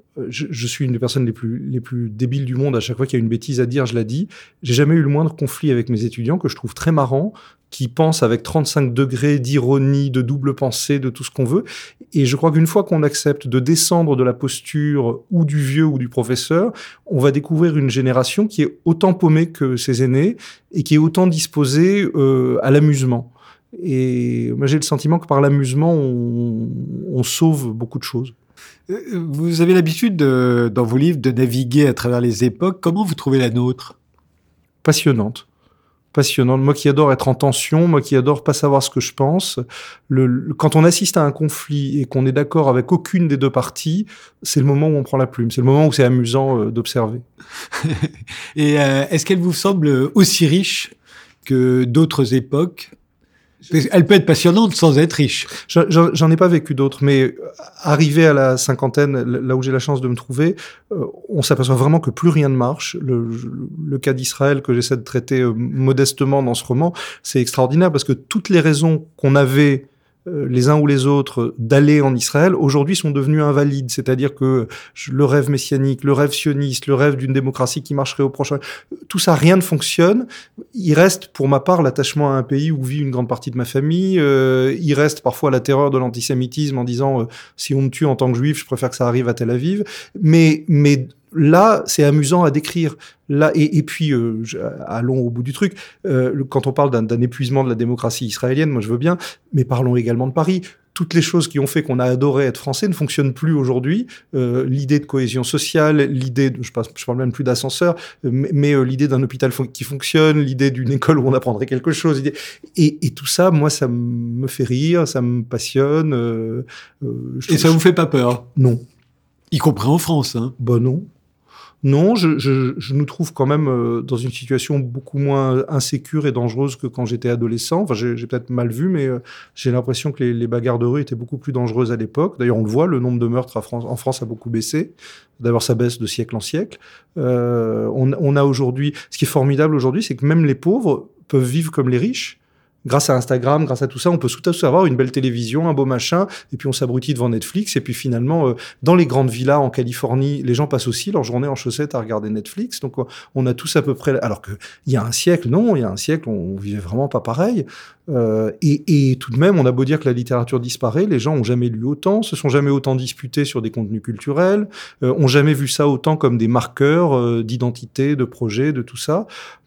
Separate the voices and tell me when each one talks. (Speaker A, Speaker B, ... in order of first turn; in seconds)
Speaker A: 0.1-28.3, 34.8-35.5, 36.1-47.2, 55.6-117.8, 118.5-118.8, 120.6-121.1, 121.8-169.3
Speaker B: 28.9-34.0, 47.7-50.9, 51.4-52.9, 53.7-55.5, 117.5-118.5, 119.5-120.5